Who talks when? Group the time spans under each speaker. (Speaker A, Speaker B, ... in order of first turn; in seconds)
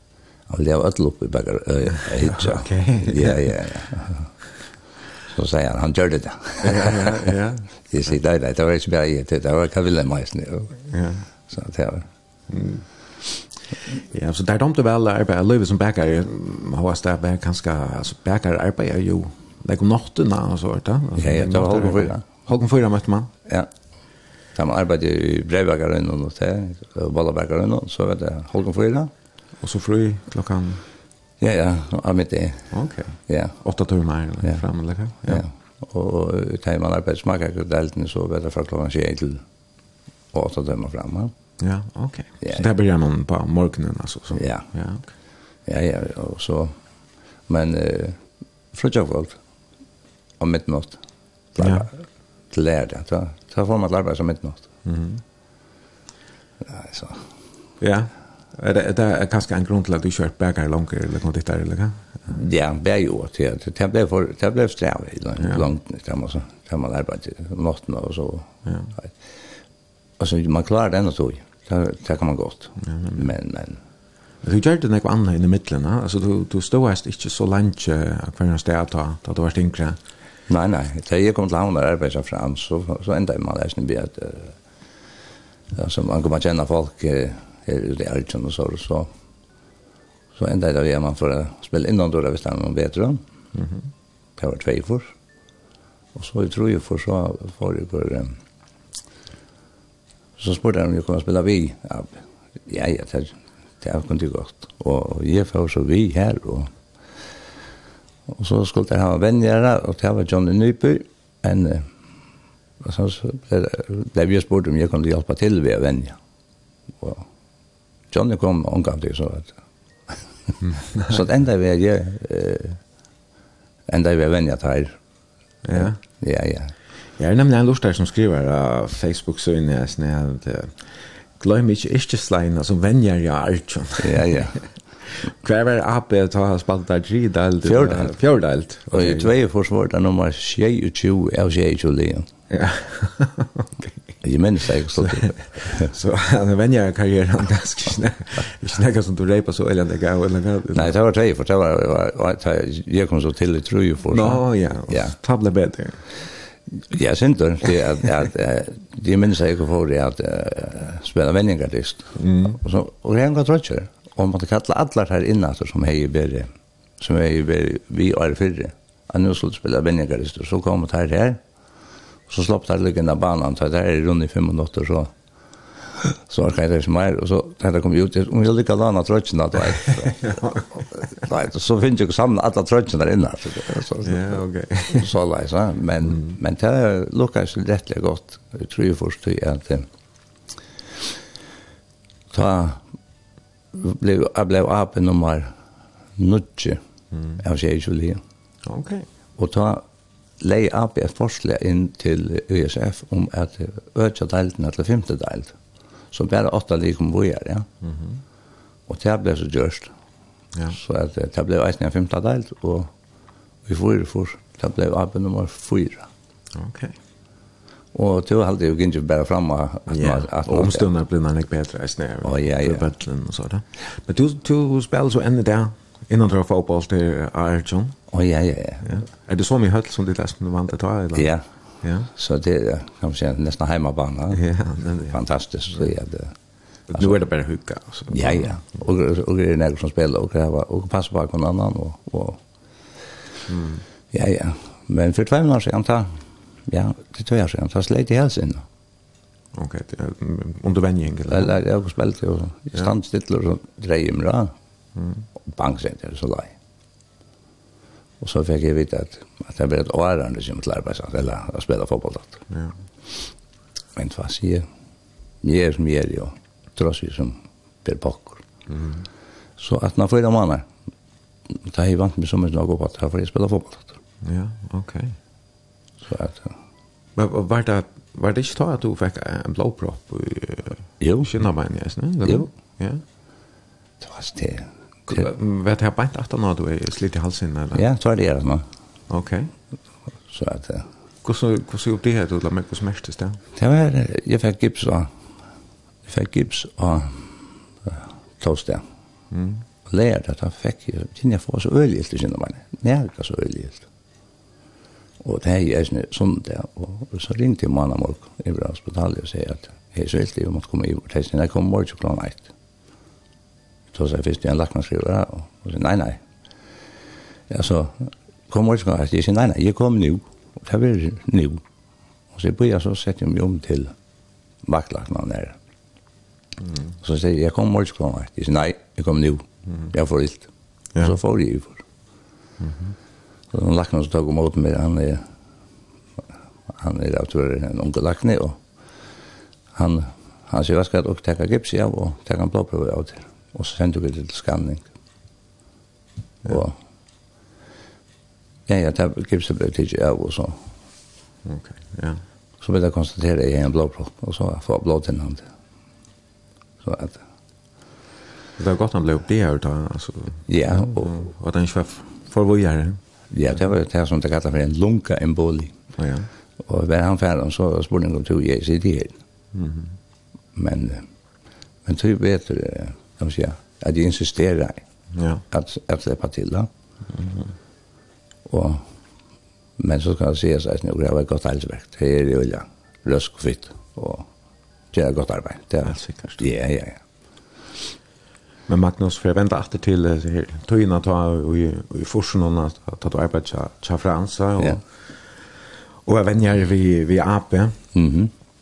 Speaker A: 0.5-4.3, 5.3-7.3, 7.9-10.8, 11.5-12.1, 21.2-22.2, 24.5-29.1, 31.4-32.7, 33.3-33.5, 35.3-39.4, 40.3-41.3, 44.3-44.7, 45.6-46.8, 47.5-48.2, 48.7-49.4, 50.4-51.0, 51.5-52.0, 52.5-54.7, 56.6-57.2, 62.3-69.1, 70.2-73.8, 80.5-84.5, 85.7-89.1, 90.3-93.2, 94.4-95.1, 96.1-98.3, 100.4-106.7, 108.3-111.9, 112.8-116.2, 117.0-117.2, 118.1-119.5, 121.0-122.8, 123.9-125.0, 125.8-126.7, 134.0-134.6, 137.6-138.1, 138.9-142.3, 144.2-145.9, 150.7-155.2, 156.9-171.4, 172.3-175.1, 175.9-180.4, 180.9-184.4, 184.9-189.9, 192.3-192.8, 193.7-195.5, 196.2-196.8, 197.4-198.2, 199.4-199.8, 200.4-205.5, 206.1-207.7, 208.9-209.9, 210.7-212.9, 213.7-216.1, 217.9-220.9, 222.2-222.9, 228.1-229.0, 231.1-231.4, 232.1-234.4, 235.1-236.3, 238.1-242.4, 244.1-248.6, 251.3-254.5, 255.4-256.5, 258.2-262.4, 263.9-264.6, 265.4-268.4, 269.6-270.7, 271.5-274.0, 276.0-276.5, 281.0-281.3, 284.0-284.7, 287.7-288.6, 290.3-290.9, 293.6-295.1, 296.1-298.8, 299.9-303.9, 305.2-312.5, 313.9-316.2, 317.5-321.6, 322.3-323.9, 324.6-325.6, 327.0-330.5, 331.0-331.8, 333.5-335.2, 336.7-338.6, 339.7-344.9, 346.4-346.8, 348.7-350.6, 352.6-355.4, 356.8-357.2, 360.5-361.2, 363.3-365.7, 366.6-369.2, 370.6-371.1, 371.8-374.8, 375.5-376.7, 378.4-378.8, 379.8-384.3, 384.9-387.0, 397.9-398.3
Speaker B: 2.2-3.5, 6.6-7.7, 10.9-11.2, 12.5-12.8, 14.1-23.3, 29.6-30.8, 32.7-35.4, 41.6-45.0, 51.6-51.9, 54.9-55.2, 57.8-62.3, 65.4-65.7, 68.6-68.9, 72.8-73.2, 74.4-80.0, 93.5-93.8, 125.6-126.0, 127.2-134.4, 135.0-139.3, 142.5-144.0, 145.0-150.9, 154.1-156.0, 162.2-162.6, 180.1-180.7, 184.0-185.1, 198.7-199.1, 207.8-208.2, 216.5-216.9, 219.9-228.0, 228.8-232.1, 234.3-235.2, 236.9-238.5, 243.5-243.8, 249.5-251.5, 254.9-255.2, 268.7-269.0, 274.2-275.1, 277.1-283.0, 285.1-287.8, 289.1-289.5, 291.2-293.4, 299.3-299.6, 332.6-332.9, 351.4-352.2, 358.6-363.0, 366.0-366.3, 369.5-369.9, 375.1-375.4, 377.1-377.5, 385.8-386.4, 388.7-394.8, 396.0-397.8